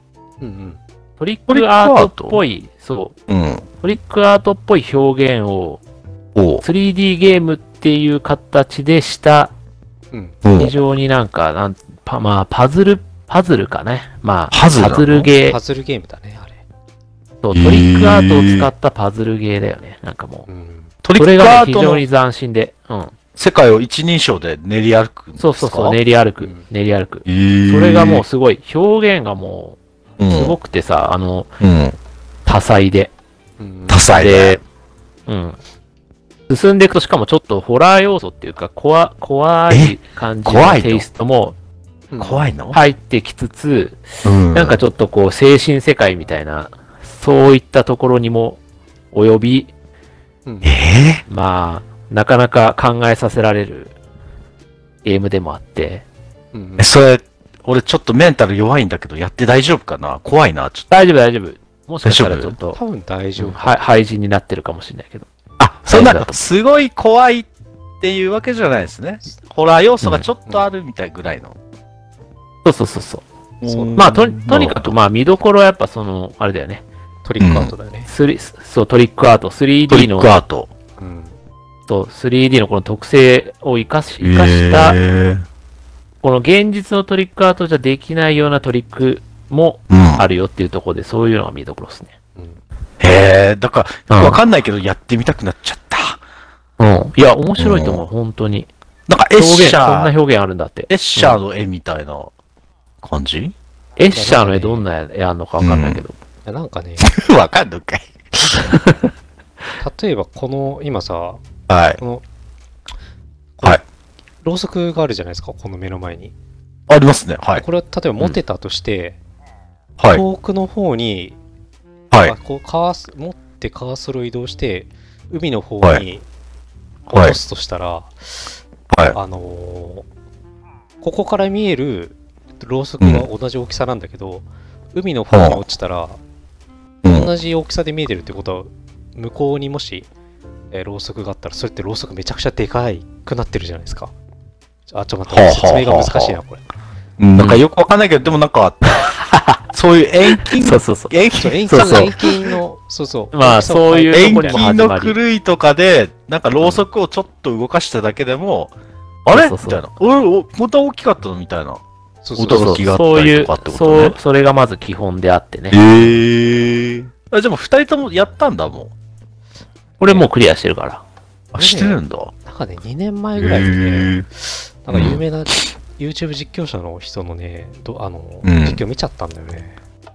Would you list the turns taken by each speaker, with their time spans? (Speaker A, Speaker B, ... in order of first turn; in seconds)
Speaker A: 0.4-0.8, 10.1-10.4, 15.3-16.6, 20.5-20.9, 26.4-26.6, 33.6-34.1, 42.1-42.5, 50.5-50.7, 56.5-56.9, 62.7-63.8, 73.6-74.1, 77.2-78.1, 81.0-81.3, 92.3-92.6, 104.1-104.8, 106.4-107.1, 109.8-111.5, 112.0-112.2, 113.6-113.8, 114.4-116.3, 117.6-119.2, 120.1-121.4, 122.2-126.2, 127.1-128.5, 129.1-130.1, 131.0-136.2, 137.1-140.1, 140.7-144.1, 144.9-146.6, 151.3-154.6, 162.2-162.9, 170.0-170.3, 171.6-179.8
Speaker B: 1.2-3.1, 3.8-5.8, 6.6-9.5, 10.6-15.6, 17.4-20.5, 21.1-23.1, 25.4-29.8, 30.3-31.5, 32.5-33.1, 34.1-34.6, 35.3-35.6, 36.5-41.5, 42.7-48.6, 49.1-49.7, 51.3-53.9, 55.0-56.0, 60.9-62.8, 63.4-65.3, 65.9-66.4, 72.6-73.2, 74.0-76.8, 78.1-80.4, 81.9-85.0, 86.2-92.1, 94.1-94.4, 96.8-98.7, 99.3-101.3, 104.0-106.1, 108.7-109.0, 148.9-149.6, 150.3-151.2, 151.7-152.1, 153.3-155.2, 159.3-159.8, 162.5-166.1, 170.0-171.0
Speaker C: 1.5-2.4, 3.3-3.6, 6.3-6.6, 10.4-10.7, 14.5-15.3, 17.5-18.7, 21.0-22.0, 23.4-26.0, 27.2-28.2, 30.2-30.6, 31.6-32.0, 33.9-34.6, 39.7-41.0, 42.2-42.8, 44.2-44.8, 50.6-51.2, 56.8-60.9, 62.0-62.5, 65.6-67.5, 68.0-71.6, 73.6-74.9, 77.4-77.7, 79.9-80.7, 84.2-85.4, 89.9-90.2, 93.0-96.2, 97.6-98.1, 99.1-100.1, 100.9-102.3, 103.0-103.5, 105.6-106.0, 107.0-108.8, 111.7-112.0, 116.9-117.6, 120.0-120.2, 127.1-127.4, 128.9-129.2, 133.0-133.3, 135.3-135.6, 137.0-137.3, 145.3-146.4, 147.2-149.1, 149.7-152.1, 154.1-158.7, 159.3-161.8, 162.3-164.2, 165.7-168.9, 171.5-172.3, 173.4-174.2, 174.9-175.2, 178.4-178.8